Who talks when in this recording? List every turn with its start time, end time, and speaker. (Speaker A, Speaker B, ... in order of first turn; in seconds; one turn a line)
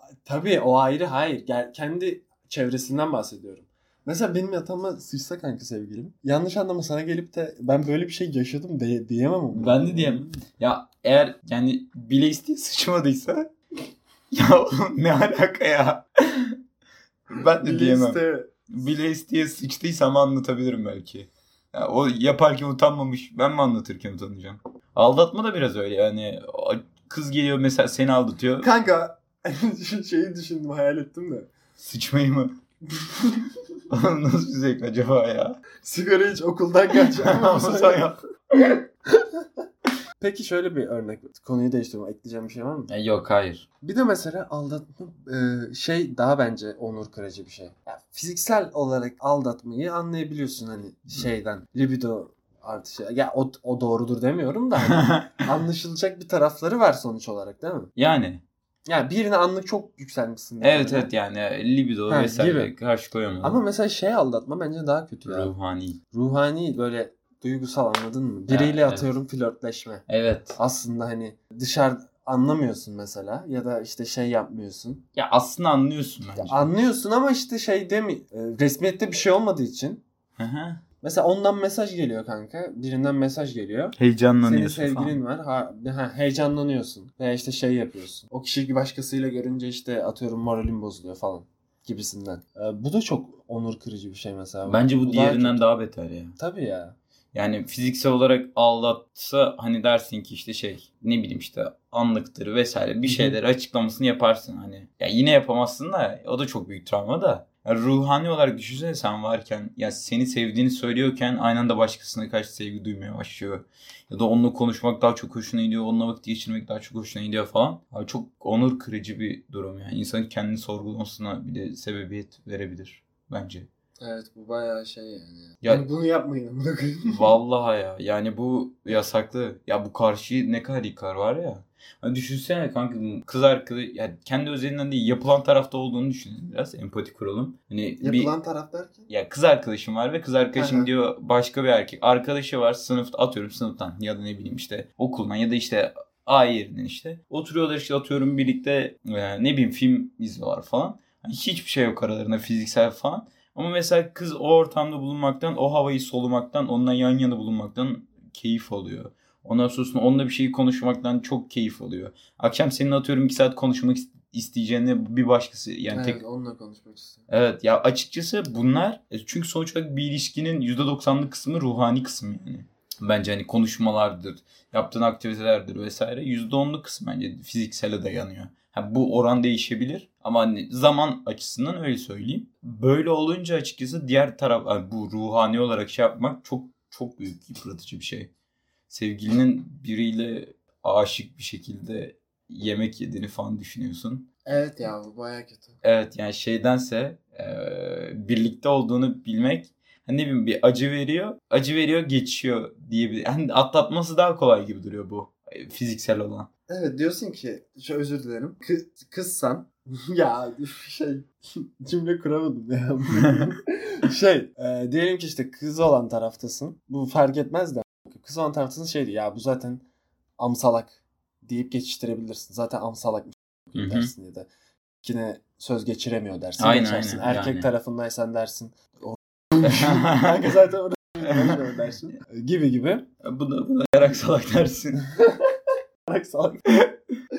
Speaker A: 0.2-10.4
Speaker B: 9.5-13.5
Speaker B: 14.3-16.6
Speaker B: 17.3-28.7
Speaker A: 17.4-18.5
Speaker A: 28.6-31.5
Speaker B: 31.8-32.5
Speaker B: 33.9-35.6
Speaker A: 35.8-38.8
Speaker B: 37.0-38.2
Speaker A: 40.2-42.9
Speaker B: 42.9-43.7
Speaker A: 43.8-57.9
Speaker B: 54.9-55.3
Speaker B: 58.0-58.4
Speaker A: 58.9-61.1
Speaker B: 60.6-63.6
Speaker A: 62.1-62.7
Speaker A: 63.4-65.5
Speaker B: 65.3-66.0
Speaker A: 66.1-70.0
Speaker B: 68.5-69.1
Speaker B: 70.1-70.6
Speaker A: 70.6-75.0
Speaker B: 75.2-76.7
Speaker A: 76.4-80.0
Speaker B: 80.4-80.8
Speaker A: 81.0-95.7
Speaker B: 84.0-85.2
Speaker B: 94.7-96.4
Speaker A: 96.4-97.0
Speaker B: 97.3-123.7
Speaker A: 103.1-103.3
Speaker A: 124.0-127.3
Speaker B: 127.1-138.3
Speaker A: 138.0-139.1
Speaker B: 139.1-166.2
Speaker A: 140.6-140.9
Speaker A: 165.9-167.2
Speaker B: 167.3-188.3
Speaker B: 188.9-194.3
Speaker A: 194.5-195.8
Speaker B: 195.8-206.5
Speaker A: 206.7-219.8
Speaker A: 220.4-224.5
Speaker B: 223.8-224.1
Speaker A: 225.0-233.1
Speaker B: 226.6-227.7
Speaker B: 229.6-230.6
Speaker B: 231.3-231.7
Speaker B: 233.2-235.0
Speaker A: 235.2-235.4
Speaker A: 236.1-236.7